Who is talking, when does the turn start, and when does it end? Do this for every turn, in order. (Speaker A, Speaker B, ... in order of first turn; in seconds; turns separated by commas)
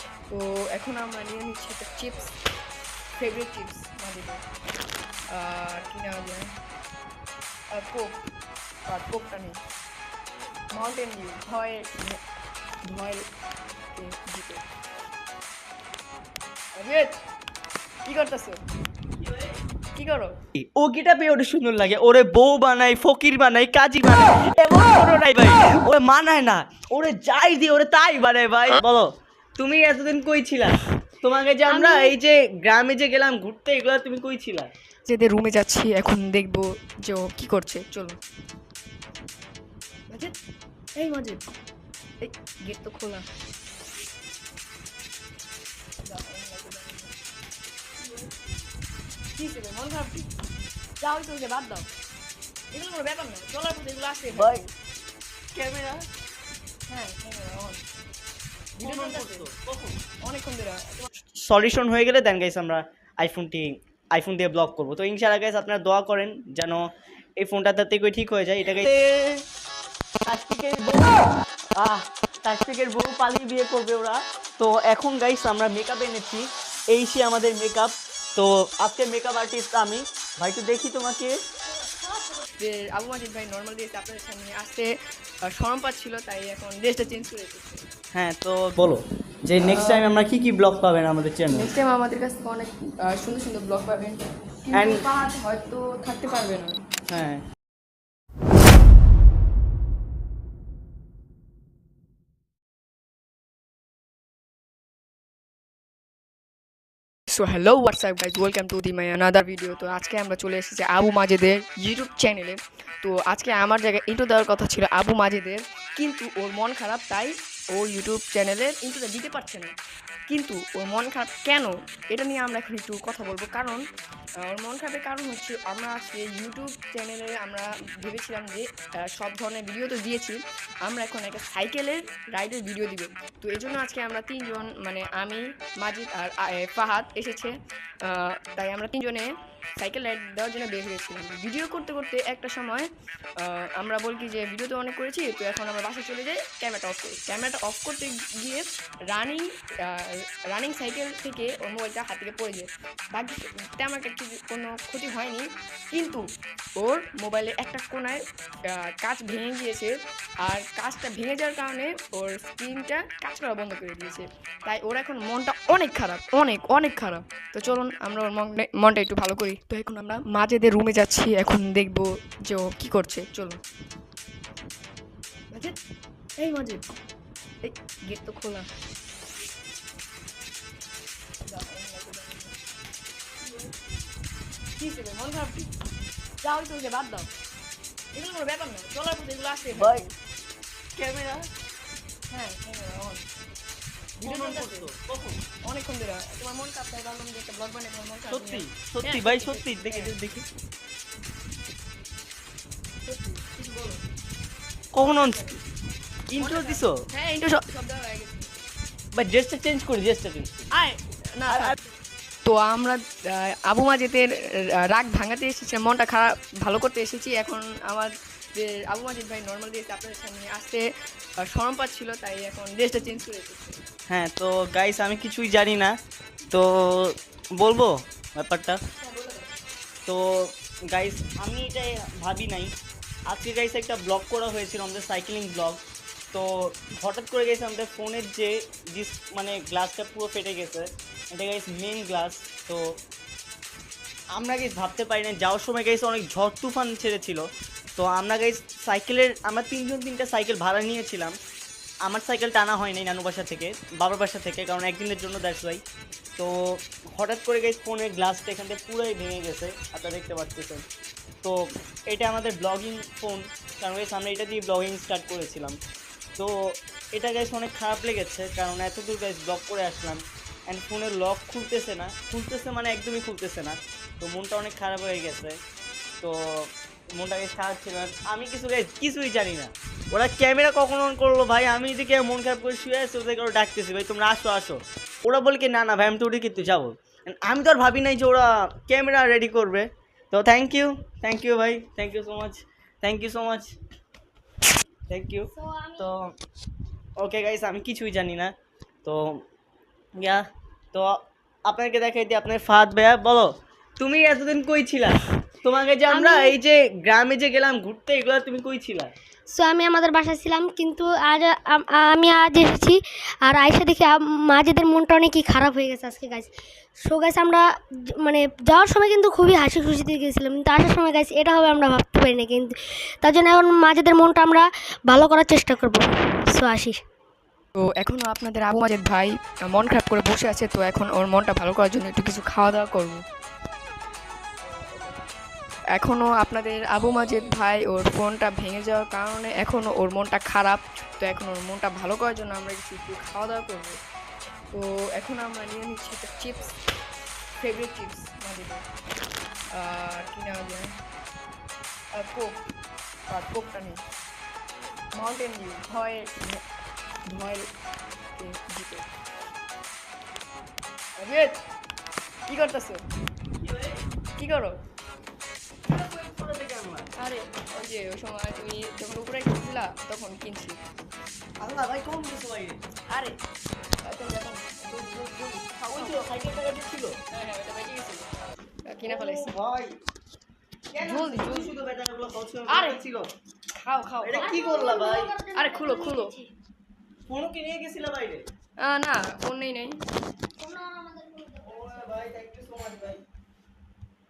Speaker A: 0.3-2.3, Speaker A: 3.2-4.4, Speaker A: 5.3-6.5, Speaker A: 7.7-8.2, Speaker A: 8.9-9.6, Speaker A: 10.7-12.2, Speaker A: 12.8-13.3, Speaker A: 13.9-14.6, Speaker A: 16.8-17.2, Speaker A: 18.0-18.6, Speaker B: 19.2-19.6, Speaker A: 19.9-20.4, Speaker B: 20.6-34.7, Speaker C: 31.7-32.1, Speaker A: 35.0-38.2, Speaker A: 40.1-40.3, Speaker A: 41.0-41.4, Speaker A: 42.2-43.3, Speaker A: 46.0-47.2, Speaker A: 48.0-48.3, Speaker A: 49.3-50.3, Speaker A: 51.0-51.9, Speaker A: 52.7-54.7, Speaker B: 54.3-54.6, Speaker B: 55.5-56.0, Speaker A: 56.9-57.8, Speaker A: 58.8-59.5, Speaker B: 58.8-60.0, Speaker A: 60.2-61.0, Speaker B: 61.4-66.8, Speaker B: 67.4-69.4, Speaker B: 70.3-71.3, Speaker B: 71.8-81.3, Speaker A: 82.6-84.9, Speaker A: 85.5-87.9, Speaker B: 88.1-91.7, Speaker A: 89.7-90.1, Speaker A: 91.5-96.8, Speaker B: 94.7-95.0, Speaker B: 97.1-97.4, Speaker A: 107.3-119.8, Speaker A: 120.3-123.8, Speaker A: 124.4-142.9, Speaker A: 143.4-156.3, Speaker A: 156.8-173.6, Speaker A: 175.5-175.8, Speaker A: 176.4-176.8, Speaker A: 177.6-178.7, Speaker A: 181.5-182.6, Speaker A: 183.4-183.7, Speaker A: 184.8-185.7, Speaker A: 186.4-187.3, Speaker A: 188.1-190.1, Speaker B: 189.8-190.0, Speaker B: 191.0-191.5, Speaker A: 192.3-193.2, Speaker B: 194.2-195.4, Speaker A: 194.2-194.9, Speaker A: 195.6-200.2, Speaker B: 198.3-200.5, Speaker A: 203.0-204.0, Speaker B: 204.9-205.5, Speaker A: 205.0-205.6, Speaker B: 206.3-207.0, Speaker A: 206.4-208.7, Speaker B: 209.1-210.7, Speaker A: 210.7-211.8, Speaker B: 211.5-211.8, Speaker A: 212.4-214.3, Speaker A: 214.8-220.8, Speaker A: 221.4-223.8, Speaker B: 224.1-225.9, Speaker B: 226.5-228.8, Speaker A: 229.0-229.5, Speaker B: 230.1-232.7, Speaker B: 233.3-235.8, Speaker B: 236.3-242.9, Speaker B: 244.3-247.4, Speaker B: 248.0-251.3, Speaker B: 252.0-255.8, Speaker B: 256.4-260.9, Speaker B: 261.4-265.8, Speaker B: 266.4-275.6, Speaker B: 276.2-293.8, Speaker B: 295.1-296.3, Speaker C: 295.5-296.1, Speaker B: 297.2-299.4, Speaker B: 300.1-309.1, Speaker C: 306.1-306.6, Speaker C: 309.5-316.5, Speaker C: 317.1-317.6, Speaker C: 318.2-327.0, Speaker A: 327.8-333.2, Speaker A: 334.6-335.2, Speaker A: 335.9-344.0, Speaker A: 344.7-346.8, Speaker A: 347.6-348.8, Speaker A: 349.7-350.9, Speaker A: 352.1-352.6, Speaker A: 353.3-354.0, Speaker A: 355.1-356.6, Speaker A: 357.3-357.7, Speaker A: 358.4-359.1, Speaker A: 361.2-361.6, Speaker A: 362.5-363.0, Speaker B: 363.6-364.0, Speaker A: 364.4-364.8, Speaker B: 365.9-367.1, Speaker A: 367.2-370.8, Speaker B: 371.6-372.8, Speaker A: 373.1-373.4, Speaker A: 374.0-375.0, Speaker B: 374.9-377.1, Speaker A: 375.9-376.2, Speaker A: 377.3-378.3, Speaker A: 378.9-379.5, Speaker B: 379.1-380.0, Speaker B: 380.9-383.3, Speaker A: 381.0-381.7, Speaker A: 382.7-383.0, Speaker A: 383.8-384.6, Speaker B: 384.2-385.3, Speaker C: 384.4-386.5, Speaker A: 385.6-386.3, Speaker B: 387.3-388.4, Speaker A: 388.8-390.0, Speaker C: 390.5-392.4, Speaker B: 391.6-393.2